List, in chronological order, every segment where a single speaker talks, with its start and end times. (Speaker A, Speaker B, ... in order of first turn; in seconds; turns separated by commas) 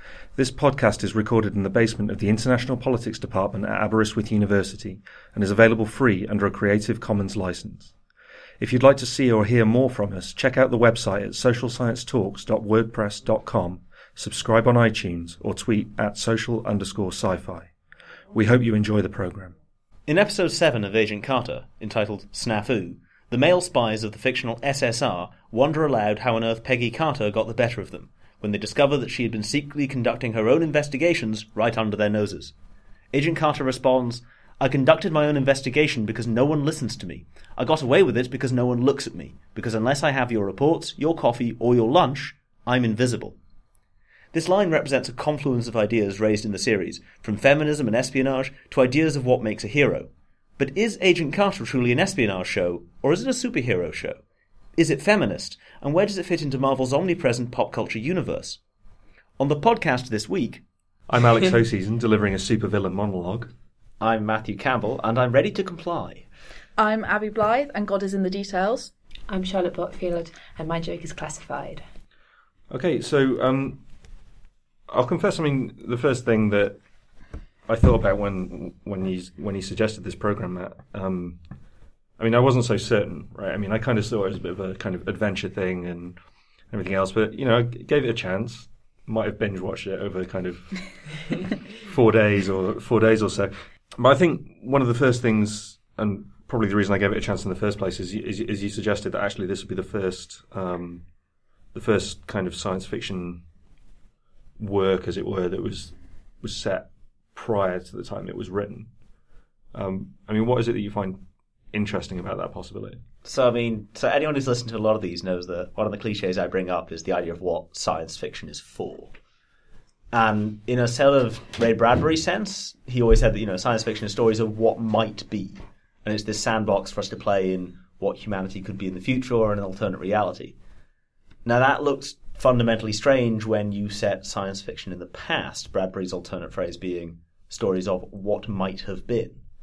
Speaker A: 0.4-7.9, Speaker A: 8.6-17.7, Speaker A: 18.3-19.6, Speaker B: 20.1-32.5, Speaker B: 33.1-43.4, Speaker B: 44.3-54.2, Speaker B: 54.8-58.6, Speaker B: 59.4-60.6, Speaker A: 61.1-63.5, Speaker B: 64.0-66.3, Speaker C: 66.8-68.9, Speaker D: 69.3-71.8, Speaker A: 72.7-73.8, Speaker A: 74.9-76.8, Speaker A: 77.7-81.4, Speaker A: 82.2-86.2, Speaker A: 86.7-101.1, Speaker A: 101.7-103.4, Speaker A: 104.6-108.9, Speaker A: 109.7-113.0, Speaker B: 113.2-119.1, Speaker B: 120.1-130.6, Speaker B: 131.4-139.4